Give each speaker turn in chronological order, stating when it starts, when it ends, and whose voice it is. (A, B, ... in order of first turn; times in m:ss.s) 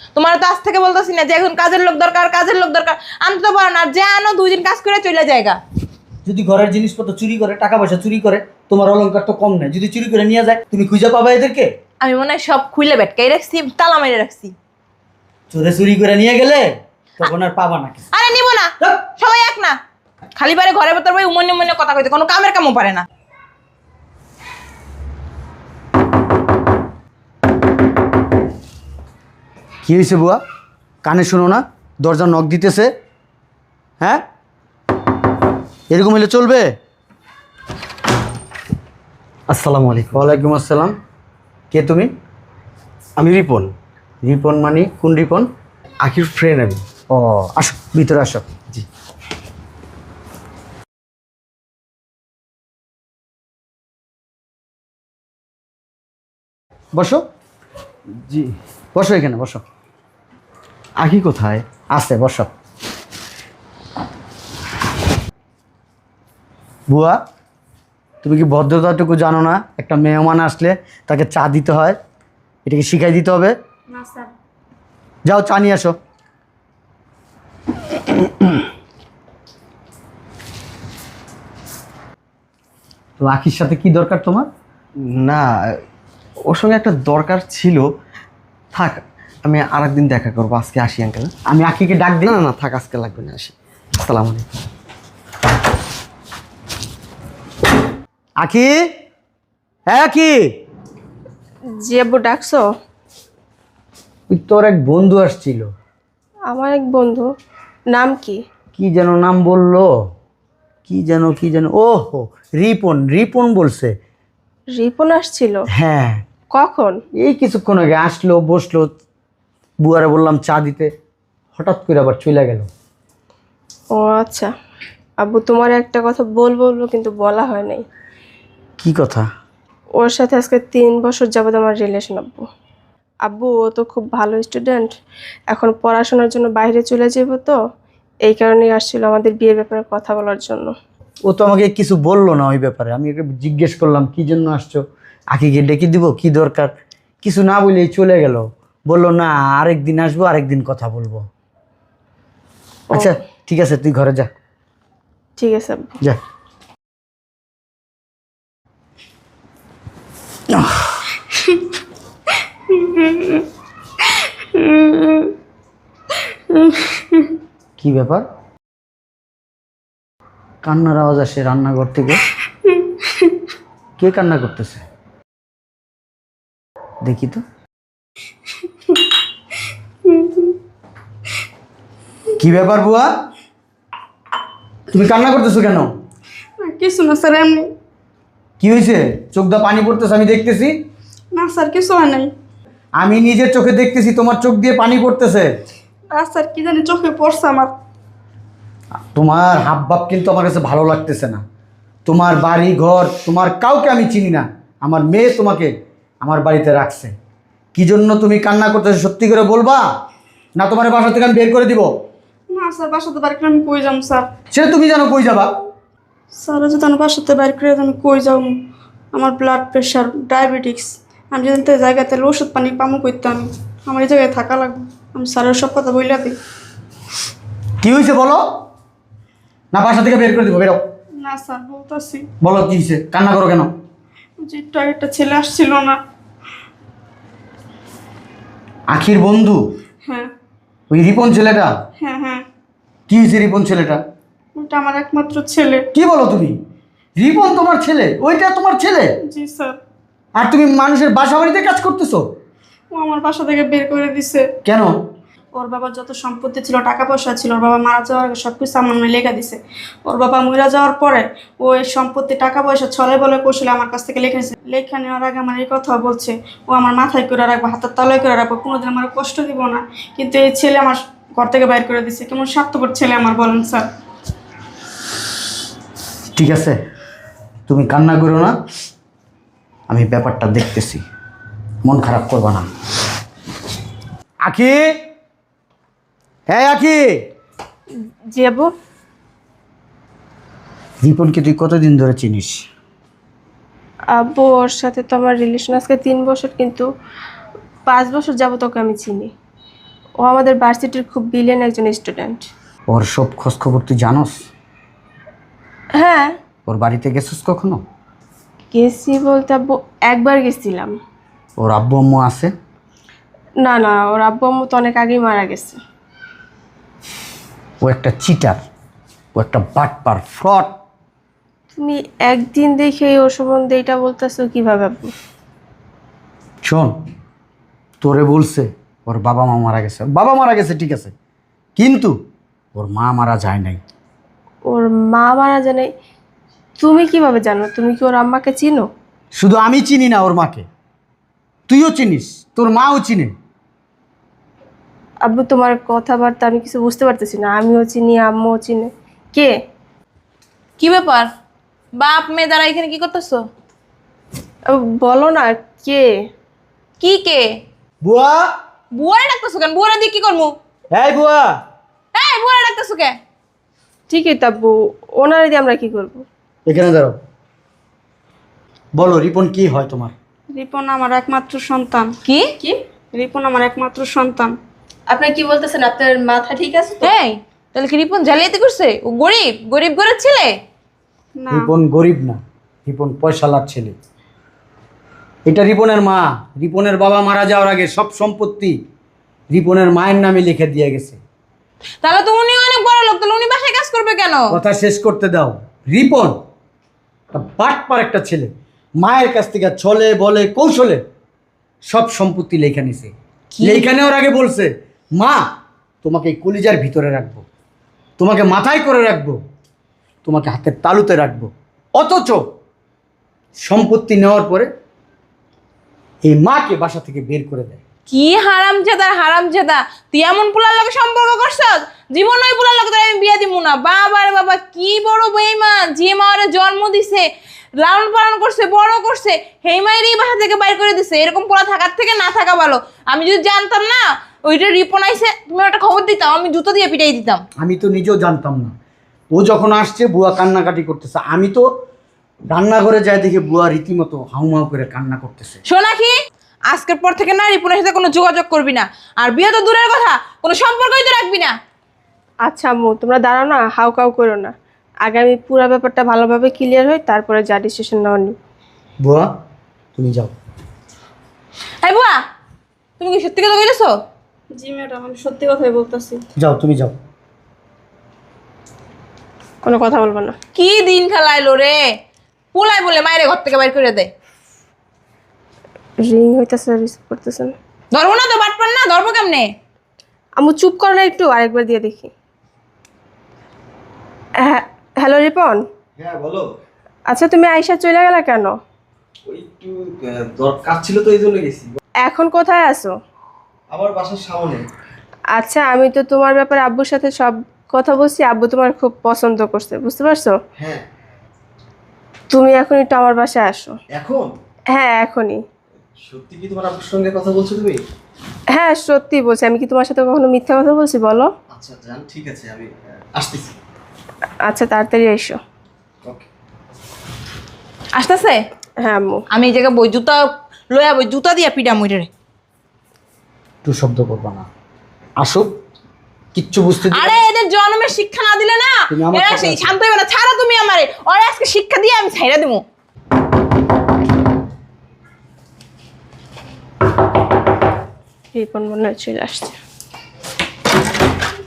0:00.1-0:05.6 A
0:06.2-0:11.7 B
0:12.0-0:14.5 A
0:15.5-0:18.0 B
0:18.1-0:19.8 A
0:20.4-0:23.0 A
0:29.8-0:30.4 B
0:31.0-0:32.9 B
0:35.9-0:36.7 B
0:39.6-0:40.0 C
0:40.1-0:40.9 B
0:41.7-0:42.1 B
0:43.2-0:43.7 C
0:44.2-0:45.5 B
0:46.1-0:46.8 C
0:47.1-0:48.4 B
0:57.0-0:57.2 B
0:58.9-0:59.6 B
1:01.0-1:01.6 C
1:01.9-1:02.5 B
1:06.9-1:07.2 B
1:08.2-1:12.0 B
1:12.6-1:13.5 B
1:13.9-1:14.3 D
1:15.2-1:16.0 B
1:23.2-1:24.5 B
1:25.2-1:25.4 C
1:26.5-1:27.7 C
1:29.5-1:31.3 C
1:31.5-1:32.4 B
1:32.4-1:33.5 C
1:34.1-1:34.4 C
1:38.4-1:38.7 B
1:39.9-1:40.5 B
1:41.8-1:42.6 E
1:44.3-1:45.6 B
1:46.5-1:47.3 E
1:47.9-1:48.4 E
1:48.8-1:49.9 B
1:50.9-1:53.9 B
1:54.8-1:55.6 E
1:55.7-1:56.2 B
1:56.5-1:57.0 E
1:57.2-1:58.9 B
1:59.8-2:00.9 B
2:01.6-2:02.6 B
2:04.0-2:04.5 E
2:05.2-2:07.8 E
2:08.8-2:09.2 B
2:10.0-2:12.4 E
2:13.2-2:14.9 E
2:15.5-2:17.6 E
2:18.2-2:20.7 E
2:21.3-2:24.8 B
2:25.3-2:26.7 B
2:27.2-2:31.2 B
2:32.9-2:34.3 B
2:35.4-2:35.9 E
2:42.7-2:43.4 D
2:44.5-2:45.3 D
2:46.5-2:47.3 D
2:47.8-2:48.2 B
2:50.6-2:52.2 B
2:52.7-2:53.3 D
2:54.0-2:54.8 B
2:57.0-2:57.4 B
3:00.1-3:00.5 D
3:02.4-3:03.1 B
3:04.9-3:05.9 B
3:06.6-3:07.7 D
3:08.6-3:10.7 B
3:11.4-3:12.3 D
3:13.0-3:15.5 B
3:16.1-3:17.7 D
3:19.1-3:21.4 B
3:22.1-3:25.7 B
3:26.2-3:27.1 B
3:27.7-3:29.8 B
3:30.6-3:31.9 B
3:32.5-3:34.2 D
3:34.5-3:35.5 B
3:36.4-3:38.5 D
3:39.1-3:46.4 D
3:47.8-3:48.4 B
3:49.7-3:50.8 B
3:51.2-3:52.3 D
3:52.4-3:53.7 B
3:54.4-3:56.0 D
3:58.9-3:59.6 B
4:00.9-4:01.7 B
4:02.0-4:02.4 D
4:03.1-4:04.0 B
4:04.6-4:05.8 D
4:05.9-4:06.5 B
4:07.2-4:09.1 B
4:09.3-4:09.8 D
4:10.4-4:12.2 B
4:12.9-4:14.4 D
4:14.6-4:14.9 B
4:15.5-4:33.8 D
4:36.4-4:36.8 B
4:37.7-4:38.5 B
4:39.9-4:41.0 B
4:41.8-4:42.7 B
4:44.4-4:44.9 B
4:46.5-4:47.1 B
4:48.3-4:48.7 E
4:51.0-4:52.6 B
4:54.2-4:56.9 E
4:57.9-4:59.3 E
5:00.2-5:02.5 E
5:02.9-5:04.3 B
5:06.0-5:06.3 E
5:06.7-5:07.8 B
5:08.7-5:10.9 E
5:11.6-5:12.5 B
5:13.6-5:15.8 E
5:17.8-5:18.6 B
5:19.3-5:20.7 B
5:21.7-5:25.1 E
5:26.6-5:26.9 B
5:28.0-5:31.1 B
5:31.8-5:32.1 B
5:32.7-5:33.8 B
5:34.7-5:35.9 E
5:36.8-5:38.9 E
5:39.4-5:40.6 B
5:41.7-5:43.3 B
5:45.2-5:49.5 E
5:50.8-5:51.3 A
5:51.9-5:53.4 A
5:54.7-5:56.1 E
5:57.0-5:57.5 A
5:58.0-5:58.5 B
5:58.9-6:00.6 A
6:00.9-6:01.6 B
6:02.1-6:03.2 A
6:04.1-6:06.2 E
6:06.7-6:07.2 B
6:09.0-6:10.1 B
6:10.5-6:12.1 D
6:12.2-6:12.5 A
6:13.1-6:14.5 D
6:15.1-6:17.1 E
6:17.0-6:20.5 A
6:21.4-6:21.7 D
6:21.5-6:24.0 B
6:25.5-6:28.8 B
6:29.5-6:31.2 B
6:32.0-6:34.5 A
6:34.5-6:36.3 B
6:37.3-6:41.0 B
6:41.9-6:45.4 B
6:43.6-6:43.9 A
6:46.0-6:47.4 B
6:48.2-6:49.4 B
6:50.2-6:52.4 B
6:53.6-6:54.7 B
6:56.2-6:57.8 B
6:58.1-7:07.2 A
7:07.8-7:17.4 A
7:17.6-7:18.7 B
7:19.3-7:21.6 B
7:22.5-7:25.6 B
7:25.6-7:26.1 A
7:26.7-7:31.6 A
7:32.4-7:34.5 E
7:35.0-7:38.3 E
7:39.0-7:39.3 B
7:40.0-7:40.3 B
7:41.8-7:42.2 A
7:43.0-7:44.0 A
7:44.5-7:46.2 D
7:46.4-7:46.9 B
7:49.6-7:50.4 E
7:50.5-7:51.8 A
7:52.5-7:54.1 A
7:56.0-7:57.6 E
7:57.9-7:59.5 A
8:00.4-8:02.1 E
8:04.4-8:05.6 E
8:07.1-8:08.5 E
8:09.3-8:11.7 C
8:12.0-8:12.9 E
8:15.4-8:20.4 E
8:22.3-8:23.7 E
8:24.7-8:25.4 E
8:26.2-8:27.8 C
8:28.5-8:31.3 E
8:31.8-8:32.6 C
8:33.2-8:33.5 C
8:34.4-8:35.4 E
8:37.9-8:38.4 A
8:38.8-8:39.2 E
8:39.3-8:42.1 A
8:43.6-8:44.5 B
8:45.2-8:45.5 B
8:46.3-8:47.2 B
8:46.9-8:52.6 A
8:48.9-8:49.7 B
8:58.3-8:59.5 E